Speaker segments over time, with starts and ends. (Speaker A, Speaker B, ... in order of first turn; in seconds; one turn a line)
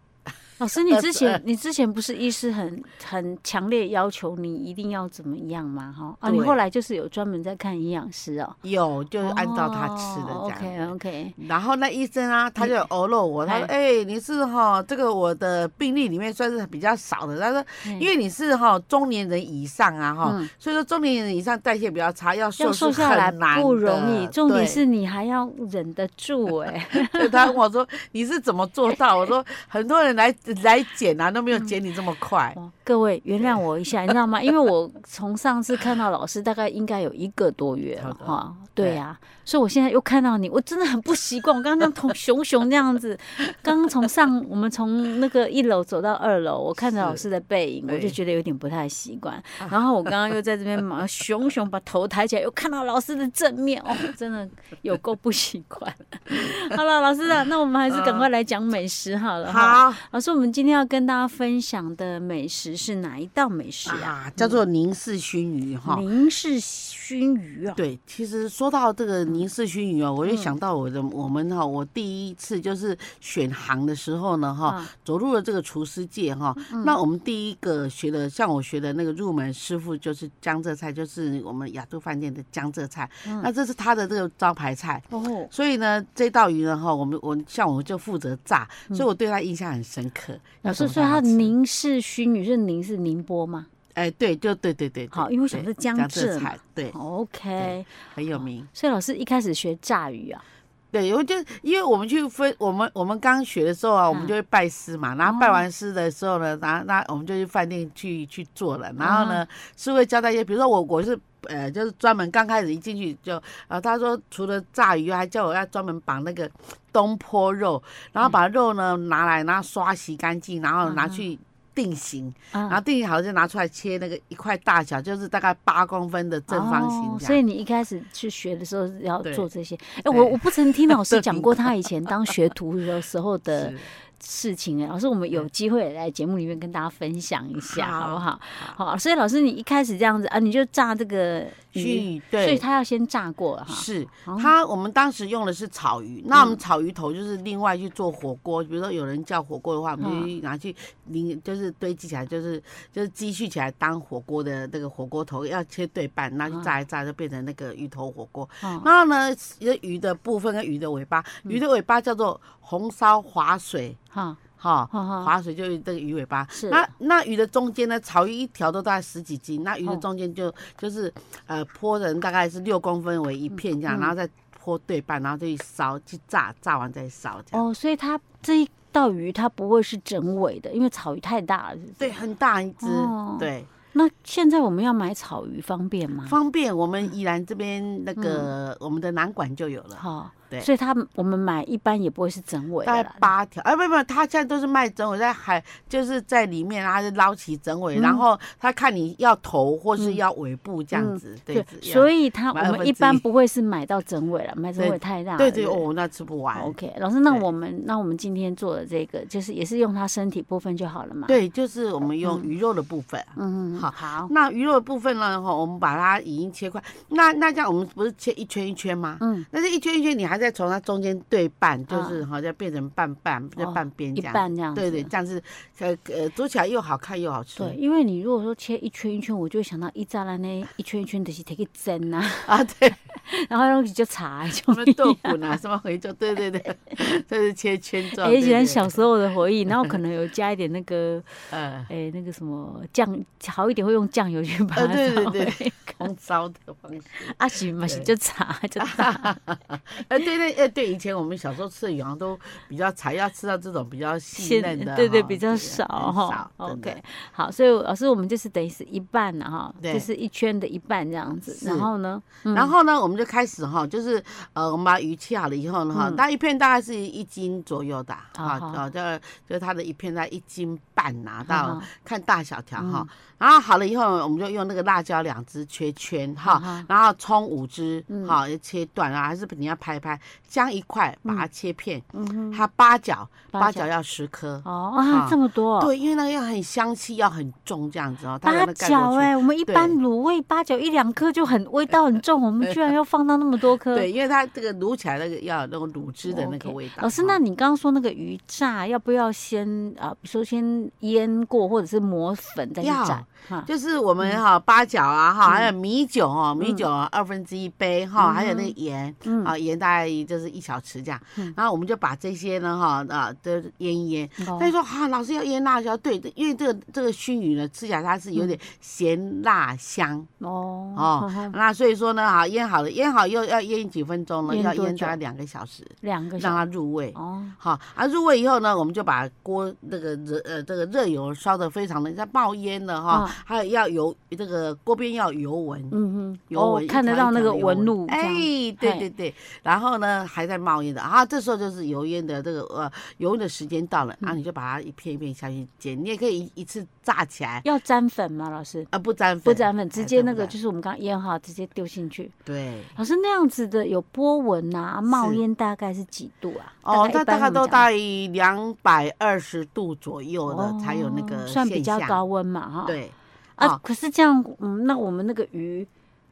Speaker A: 0.6-8.6
Speaker B: 0.9-1.4
Speaker B: 6.2-6.6
Speaker B: 8.6-24.8
Speaker A: 9.2-11.4
Speaker A: 20.2-20.5
Speaker A: 22.6-27.6
Speaker B: 26.9-32.6
Speaker A: 32.6-64.6
Speaker B: 38.0-39.0
Speaker B: 46.8-47.2
Speaker B: 47.9-48.2
Speaker B: 57.9-58.3
Speaker B: 59.4-60.0
Speaker B: 63.9-66.0
Speaker A: 65.9-67.8
Speaker B: 67.8-91.5
Speaker A: 70.3-70.5
Speaker A: 76.7-77.0
Speaker A: 85.1-85.5
Speaker A: 90.6-93.7
Speaker B: 94.0-97.0
Speaker A: 95.1-97.9
Speaker B: 97.6-98.7
Speaker A: 98.7-100.4
Speaker B: 100.9-127.4
Speaker A: 105.3-105.6
Speaker A: 109.0-109.4
Speaker A: 120.8-121.2
Speaker A: 122.5-122.8
Speaker A: 126.5-144.5
Speaker B: 130.1-131.7
Speaker B: 133.5-133.9
Speaker B: 137.7-138.8
Speaker B: 141.8-142.6
Speaker B: 143.7-164.0
Speaker A: 146.3-146.6
Speaker A: 150.0-150.3
Speaker A: 158.6-158.9
Speaker A: 164.1-164.4
Speaker B: 164.6-177.6
Speaker A: 164.9-165.3
Speaker A: 166.5-166.9
Speaker A: 173.9-174.1
Speaker A: 177.5-182.2
Speaker B: 182.0-183.7
Speaker A: 182.8-186.4
Speaker B: 186.3-190.7
Speaker A: 188.2-188.5
Speaker A: 190.0-193.3
Speaker B: 192.8-203.2
Speaker A: 197.9-198.2
Speaker A: 200.9-205.8
Speaker B: 204.8-206.8
Speaker A: 206.6-211.4
Speaker B: 211.3-227.8
Speaker A: 212.2-212.5
Speaker A: 213.4-214.3
Speaker A: 219.2-219.5
Speaker A: 221.9-222.2
Speaker A: 223.6-225.1
Speaker A: 227.6-232.6
Speaker B: 232.5-233.0
Speaker A: 233.1-235.4
Speaker B: 234.7-238.9
Speaker A: 238.1-246.0
Speaker B: 241.5-241.9
Speaker B: 244.8-248.1
Speaker A: 247.2-249.4
Speaker B: 248.8-257.0
Speaker A: 254.3-262.7
Speaker B: 259.8-260.1
Speaker B: 261.5-261.9
Speaker B: 262.5-290.0
Speaker A: 265.9-266.2
Speaker A: 268.4-268.8
Speaker A: 271.5-271.9
Speaker A: 272.8-273.1
Speaker A: 276.4-276.9
Speaker A: 278.1-278.4
Speaker A: 282.1-282.6
Speaker A: 283.5-283.9
Speaker A: 284.6-285.9
Speaker A: 288.4-294.1
Speaker B: 293.9-297.4
Speaker A: 296.2-303.7
Speaker B: 302.8-320.3
Speaker A: 305.4-305.7
Speaker A: 306.6-306.8
Speaker A: 308.2-308.7
Speaker A: 309.2-309.5
Speaker A: 314.4-314.7
Speaker A: 320.4-321.6
Speaker B: 320.9-335.9
Speaker A: 324.5-325.2
Speaker A: 326.0-326.6
Speaker A: 327.1-327.6
Speaker A: 333.1-333.4
Speaker A: 335.9-339.1
Speaker B: 336.5-347.7
Speaker A: 347.6-348.9
Speaker B: 348.9-350.6
Speaker A: 349.4-352.3
Speaker B: 352.5-353.0
Speaker A: 353.0-357.8
Speaker B: 355.1-355.4
Speaker B: 356.8-362.2
Speaker A: 360.5-363.0
Speaker B: 362.9-363.8
Speaker A: 363.6-365.9